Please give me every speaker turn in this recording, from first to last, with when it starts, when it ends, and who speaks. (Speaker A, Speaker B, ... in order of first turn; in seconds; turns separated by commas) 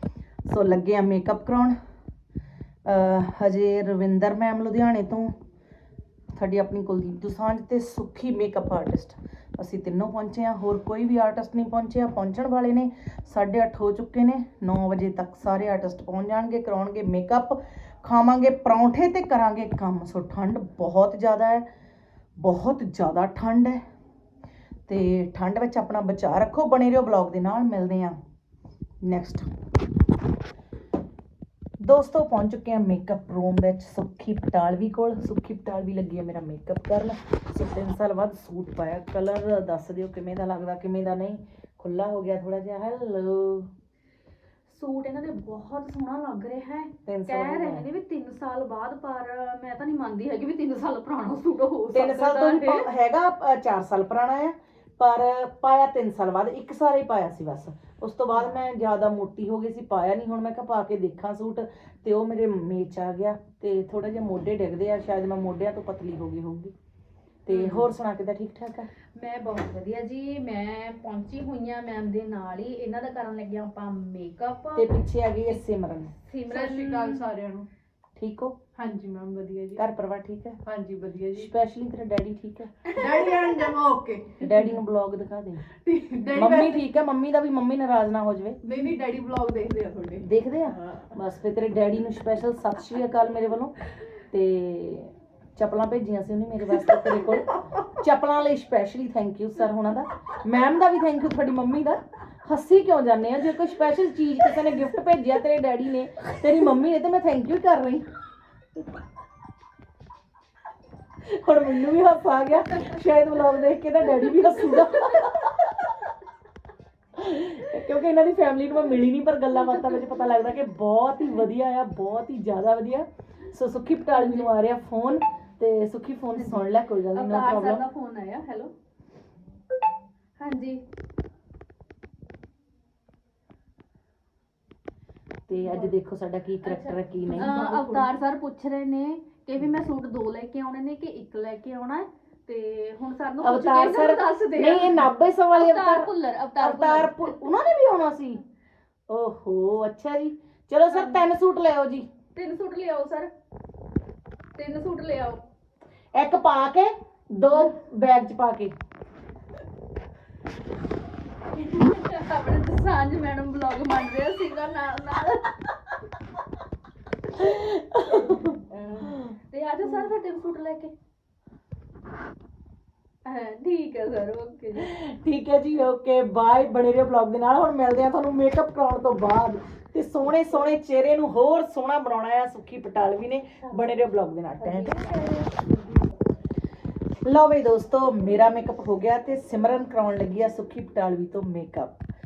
Speaker A: 0.5-1.8, Speaker A: 2.9-5.3, Speaker A: 6.3-21.7, Speaker A: 22.4-23.8, Speaker A: 24.9-28.2, Speaker A: 29.0-29.5, Speaker A: 31.8-43.7, Speaker B: 44.7-52.9, Speaker A: 47.1-47.9, Speaker A: 51.9-66.7, Speaker A: 67.5-68.9, Speaker B: 67.5-67.9, Speaker B: 69.2-75.0, Speaker A: 74.8-76.1, Speaker B: 76.2-77.2, Speaker C: 76.5-77.7, Speaker A: 78.2-78.6, Speaker C: 78.8-79.8, Speaker A: 79.8-80.6, Speaker C: 80.7-81.5, Speaker A: 81.3-82.9, Speaker C: 83.0-84.7, Speaker A: 84.4-85.6, Speaker C: 85.8-86.8, Speaker A: 86.3-88.6, Speaker C: 88.6-90.3, Speaker A: 90.2-93.7, Speaker A: 94.3-108.0, Speaker A: 111.2-115.9, Speaker A: 117.2-127.8, Speaker B: 124.1-124.5, Speaker B: 126.4-128.7, Speaker B: 130.4-130.8, Speaker A: 135.5-137.5, Speaker C: 136.7-138.1, Speaker B: 137.4-147.4, Speaker A: 143.4-148.4, Speaker A: 149.1-152.1, Speaker B: 150.9-151.2, Speaker B: 152.3-153.3, Speaker B: 154.6-155.4, Speaker A: 156.2-158.7, Speaker B: 161.6-165.7, Speaker A: 167.4-168.5, Speaker B: 168.1-170.9, Speaker B: 173.3-174.9, Speaker A: 174.8-185.4, Speaker B: 183.6-184.0, Speaker B: 184.6-185.6, Speaker A: 187.2-192.0